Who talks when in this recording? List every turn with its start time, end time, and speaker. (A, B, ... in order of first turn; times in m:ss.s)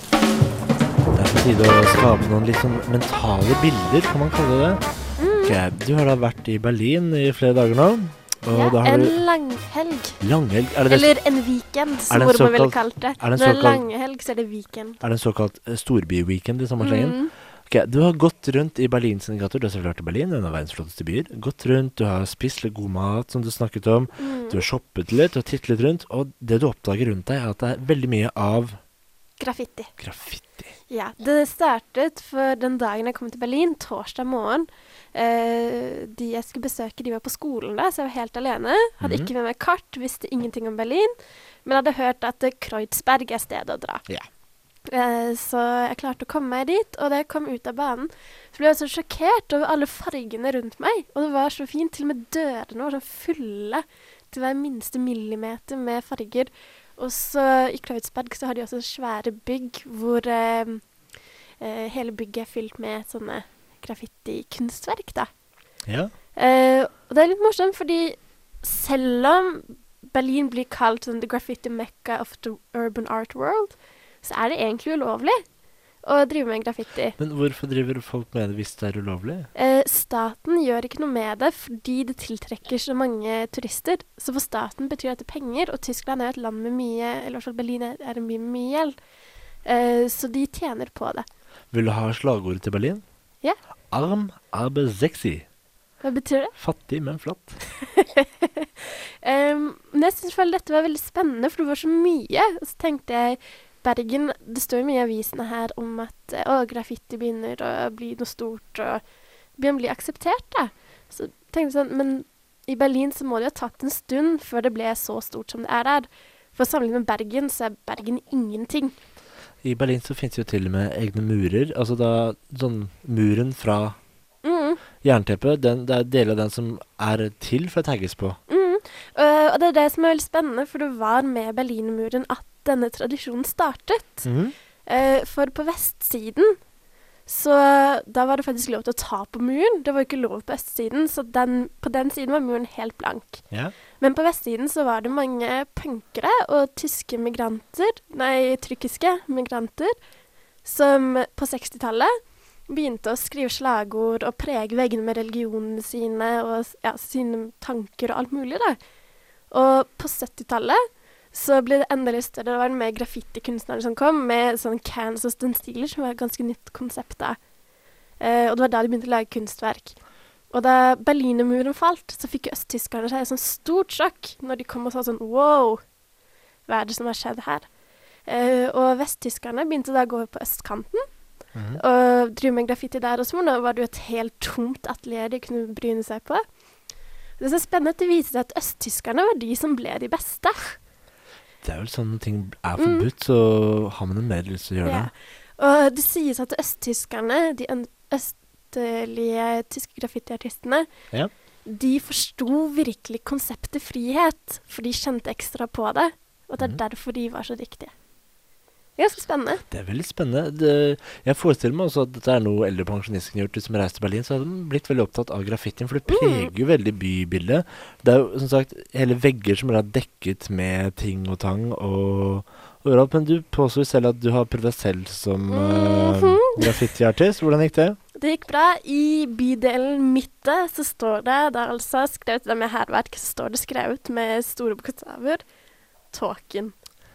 0:01.1-0:04.8 A
0:05.2-0:05.6 B
0:05.4-0:09.2 A
0:08.5-0:10.2 B
0:10.2-0:11.1 A
0:10.9-0:15.0 B
0:12.1-0:13.8 A
0:15.0-0:28.8 A
0:16.8-0:17.3 B
0:24.2-0:24.6 B
0:29.4-0:29.9 B
0:30.0-0:30.7 A
0:30.9-0:41.1 B
0:39.0-0:39.3 A
0:41.6-0:44.0 B
0:44.9-1:00.8 B
1:01.6-1:05.3 B
1:05.9-1:06.1 A
1:06.4-1:15.4 B
1:16.0-1:17.2 B
1:17.2-1:19.5 A
1:19.5-1:28.9 B
1:29.6-1:31.2 B
1:31.7-1:33.0 A
1:33.9-1:35.4 A
1:36.0-1:36.5 B
1:36.6-1:37.6 A
1:37.8-1:49.0 B
1:49.6-1:58.9 B
1:59.6-2:04.0 A
2:04.4-2:04.8 B
2:05.0-2:08.4 A
2:08.5-2:14.3 B
2:14.2-2:14.5 A
2:14.8-2:16.6 B
2:17.2-2:23.4 B
2:24.0-2:29.9 B
2:30.6-2:32.1 B
2:32.7-2:38.8 B
2:39.5-2:40.8 B
2:41.3-2:47.4 B
2:48.2-2:50.0 B
2:50.5-2:55.8 B
2:56.7-2:57.7 B
2:58.2-3:01.0 B
3:01.5-3:01.8 A
3:01.8-3:06.4 B
3:07.4-3:10.8 B
3:11.6-3:15.1 A
3:12.8-3:13.1 B
3:14.8-3:20.9 B
3:21.6-3:27.9 B
3:29.0-3:29.6 B
3:29.7-3:48.0 A
3:36.1-3:36.5 B
3:45.5-3:46.8 B
3:48.2-3:55.4 B
3:56.1-3:56.7 B